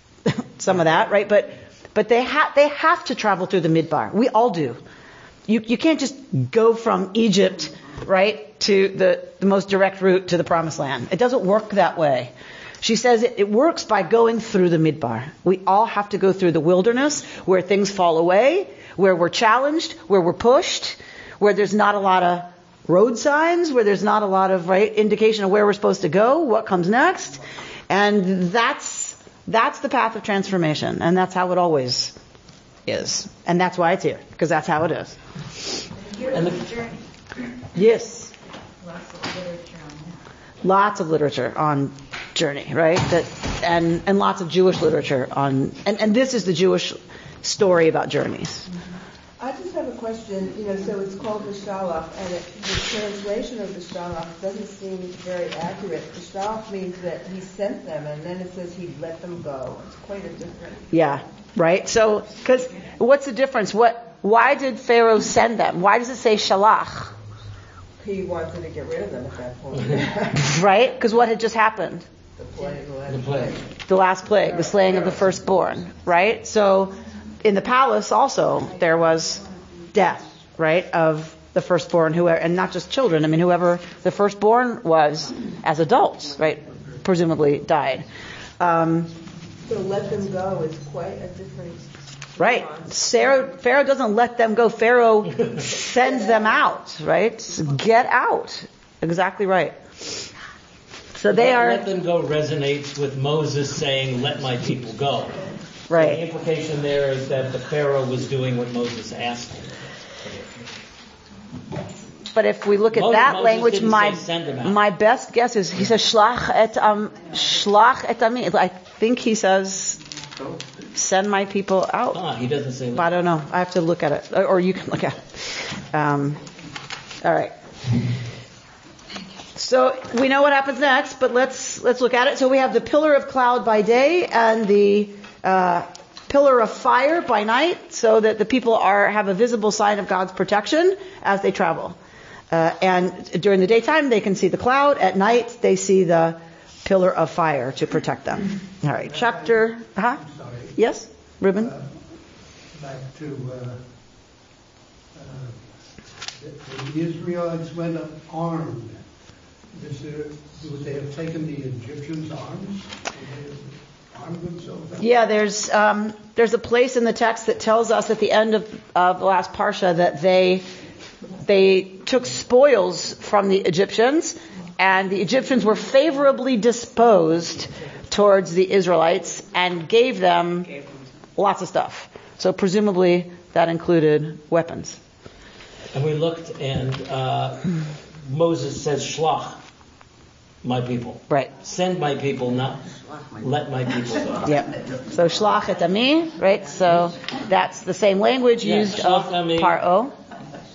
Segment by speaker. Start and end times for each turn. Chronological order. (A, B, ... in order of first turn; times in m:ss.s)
0:00.2-0:04.8 A
0:05.5-0:27.4 A
0:27.9-0:32.1 A
0:32.9-0:35.2 A
0:36.0-0:37.0 B
0:36.3-0:36.6 C
0:37.7-0:38.3 A
0:38.8-0:40.1 B
0:40.6-0:48.6 A
0:49.4-1:00.9 D
1:00.9-1:07.1 A
1:08.0-1:10.4 D
1:10.3-1:12.0 A
1:12.4-1:13.6 D
1:13.1-1:13.5 C
1:13.9-1:19.4 A
1:19.9-1:28.0 A
1:28.6-1:29.1 A
1:29.6-1:33.4 D
1:32.4-1:40.2 A
1:41.1-1:41.8 A
1:41.3-1:50.4 C
1:45.9-1:46.2 A
1:52.3-2:00.0 A
1:52.9-1:54.8 C
2:01.0-2:02.2 A
2:02.1-2:03.1 C
2:02.9-2:06.4 A
2:07.2-2:07.5 A
2:09.6-2:22.0 A
2:22.5-2:30.2 A
2:28.9-2:30.8 E
2:30.7-2:31.7 A
2:31.5-2:33.9 E
2:35.1-2:39.1 E
2:39.7-2:45.2 E
2:45.0-2:50.6 A
2:51.4-3:00.7 A
3:01.4-3:05.0 A
3:05.9-3:09.6 C
3:10.6-3:14.5 C
3:14.4-3:20.1 A
3:18.6-3:19.8 C